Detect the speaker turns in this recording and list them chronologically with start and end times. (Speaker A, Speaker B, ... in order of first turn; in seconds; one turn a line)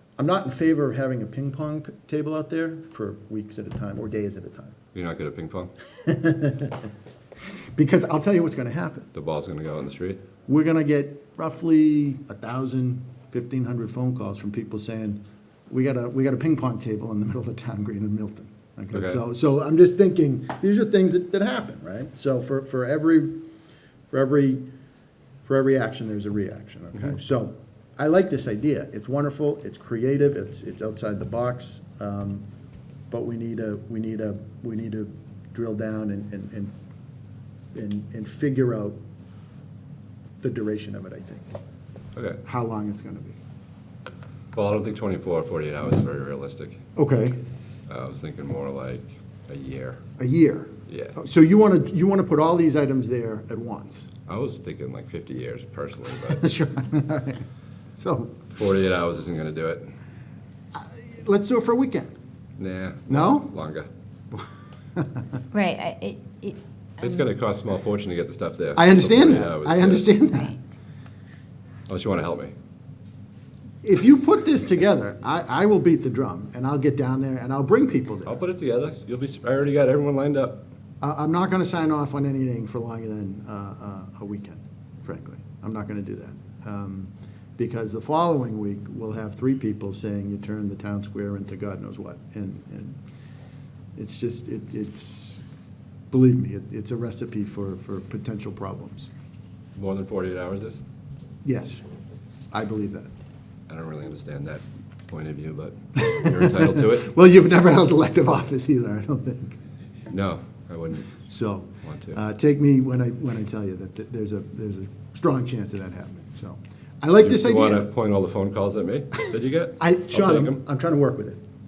Speaker A: 0.2-4.8
Speaker B: 4.9-5.7
Speaker A: 6.0-6.8
Speaker A: 7.8-9.1
Speaker B: 9.1-10.2
Speaker A: 10.4-23.4
Speaker B: 18.9-19.2
Speaker A: 24.1-24.7
Speaker A: 25.4-32.4
Speaker A: 33.1-36.7
Speaker A: 37.7-39.0
Speaker A: 40.4-41.5
Speaker B: 42.1-42.4
Speaker A: 42.4-43.4
Speaker B: 44.5-46.8
Speaker A: 47.0-47.4
Speaker B: 47.9-50.0
Speaker A: 50.2-54.1
Speaker B: 50.9-51.1
Speaker B: 54.3-56.5
Speaker A: 56.3-58.5
Speaker B: 58.5-59.9
Speaker A: 60.7-62.1
Speaker B: 62.6-63.9
Speaker A: 63.1-63.5
Speaker A: 65.0-65.2
Speaker C: 65.5-67.2
Speaker B: 67.0-70.1
Speaker A: 68.8-70.5
Speaker C: 70.3-70.6
Speaker B: 71.9-72.5
Speaker A: 73.8-78.3
Speaker B: 78.3-80.6
Speaker A: 81.0-93.0
Speaker A: 94.0-95.4
Speaker A: 96.1-99.1
Speaker B: 99.8-100.8
Speaker A: 101.4-101.8
Speaker A: 102.5-103.1
Speaker B: 103.7-107.1
Speaker A: 106.0-109.6
Speaker B: 110.1-111.2
Speaker A: 111.3-117.9
Speaker B: 111.8-112.2
Speaker B: 117.2-120.6
Speaker A: 119.8-121.4